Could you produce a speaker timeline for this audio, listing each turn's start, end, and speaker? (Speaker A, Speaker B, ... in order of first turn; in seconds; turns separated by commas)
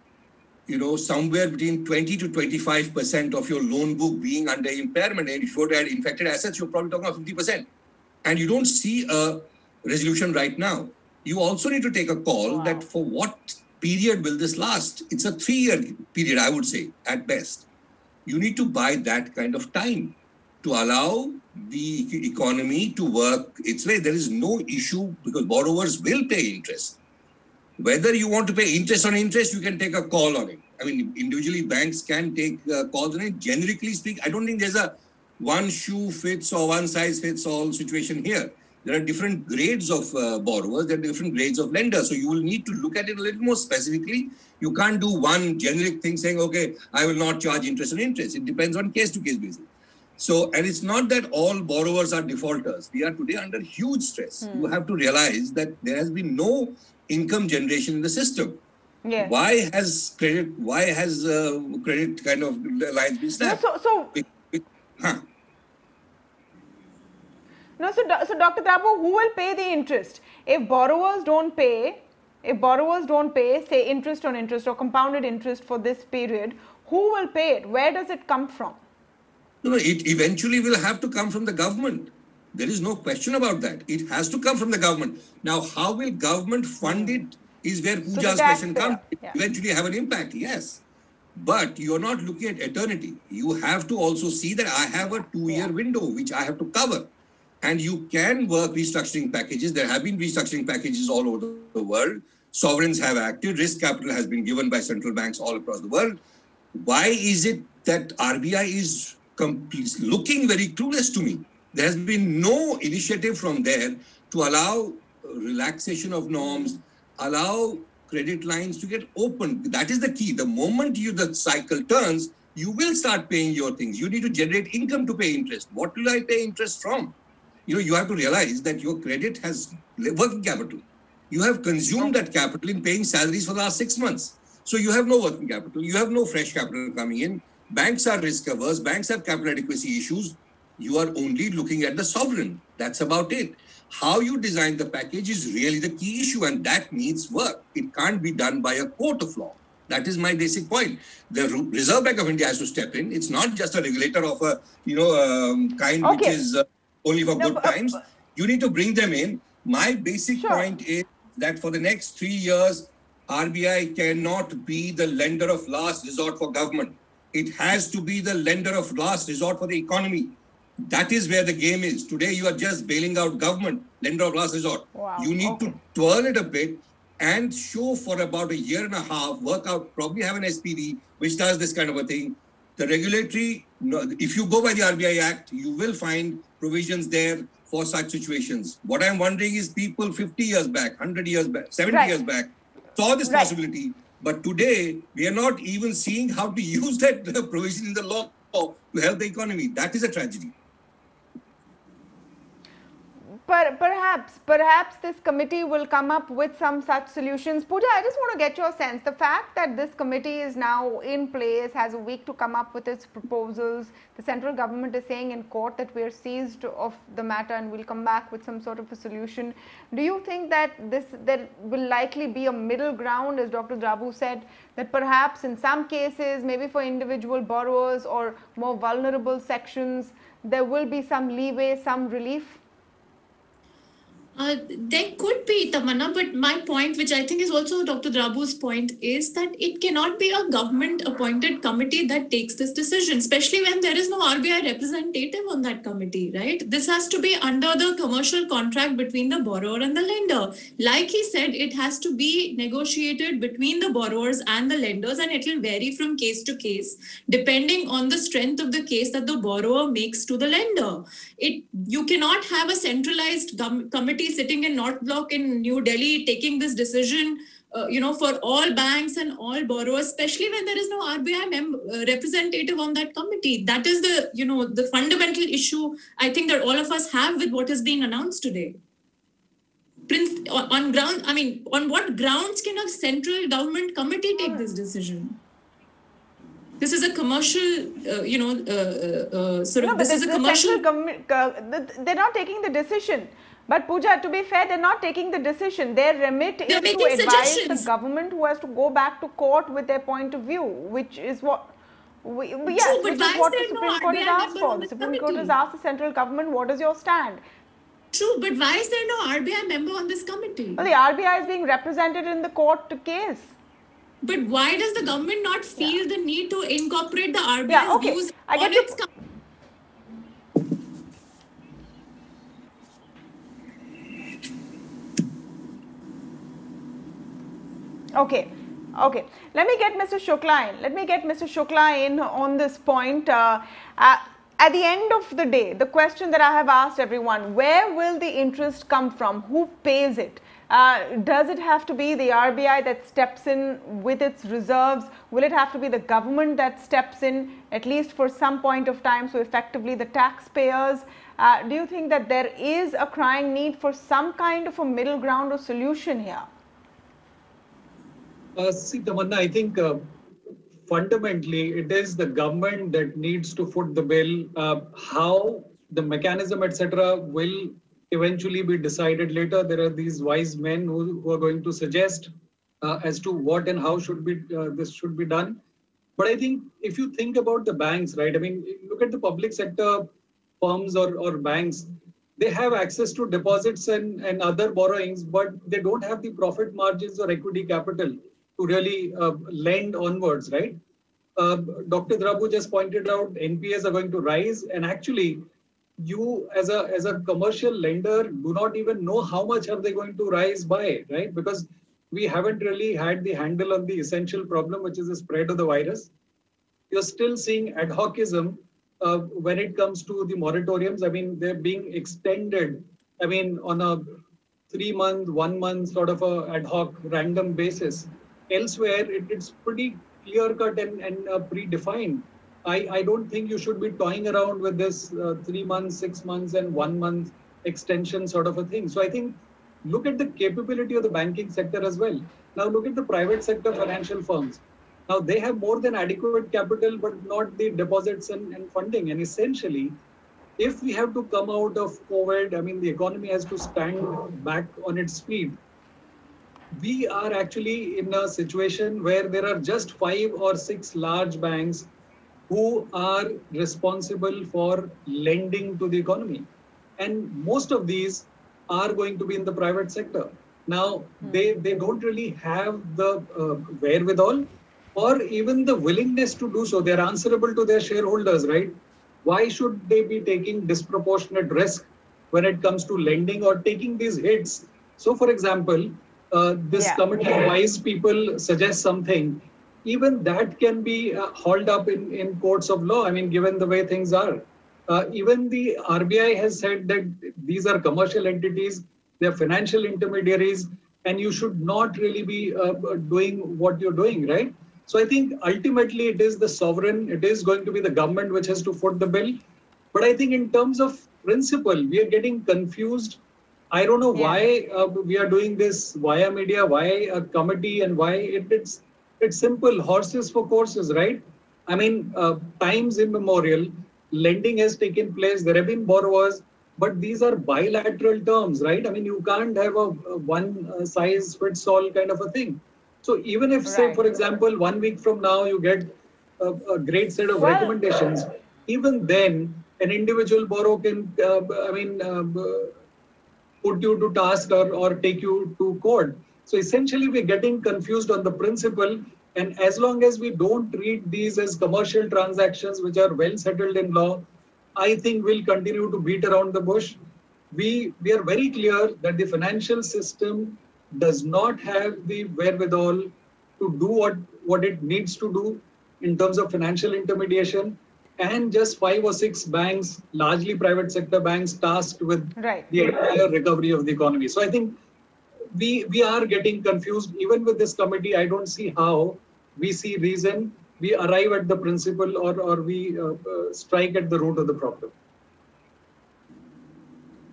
Speaker A: 0.7-7.7, Speaker A: 8.2-17.7, Speaker A: 18.3-27.0, Speaker A: 27.8-49.7, Speaker A: 50.2-58.6, Speaker B: 54.5-54.7, Speaker B: 59.0-59.3, Speaker A: 59.2-63.6, Speaker B: 63.4-64.2, Speaker A: 64.1-65.3, Speaker B: 67.8-78.8, Speaker A: 79.6-90.8, Speaker B: 86.9-87.2, Speaker B: 88.1-89.4, Speaker A: 91.4-97.1, Speaker A: 97.6-106.2, Speaker A: 106.8-127.2, Speaker A: 127.7-200.6, Speaker B: 156.0-156.4, Speaker B: 157.4-158.0, Speaker B: 160.4-160.7, Speaker B: 174.9-175.8, Speaker B: 191.9-192.2, Speaker B: 193.3-193.5, Speaker B: 203.5-232.6, Speaker C: 234.4-278.8, Speaker C: 280.1-285.4, Speaker B: 284.4-284.6, Speaker C: 286.8-290.8, Speaker B: 289.8-307.4, Speaker C: 296.7-297.9, Speaker C: 302.7-305.5, Speaker C: 308.1-310.9, Speaker B: 310.8-313.5, Speaker C: 314.2-319.1, Speaker B: 317.7-319.0, Speaker B: 328.2-356.5, Speaker D: 358.6-360.1, Speaker D: 360.9-372.3, Speaker D: 372.8-375.6, Speaker D: 376.2-390.8, Speaker D: 391.4-395.4, Speaker D: 396.0-406.1, Speaker D: 406.9-440.0, Speaker D: 440.6-445.6, Speaker D: 446.8-451.9, Speaker D: 452.5-456.5, Speaker D: 457.0-499.4, Speaker B: 476.7-477.0, Speaker D: 499.9-503.2, Speaker D: 503.7-532.7, Speaker B: 504.1-504.4, Speaker B: 523.7-524.0, Speaker B: 527.4-527.8, Speaker D: 533.6-547.0, Speaker D: 547.5-564.8, Speaker B: 562.4-562.7, Speaker D: 565.5-574.9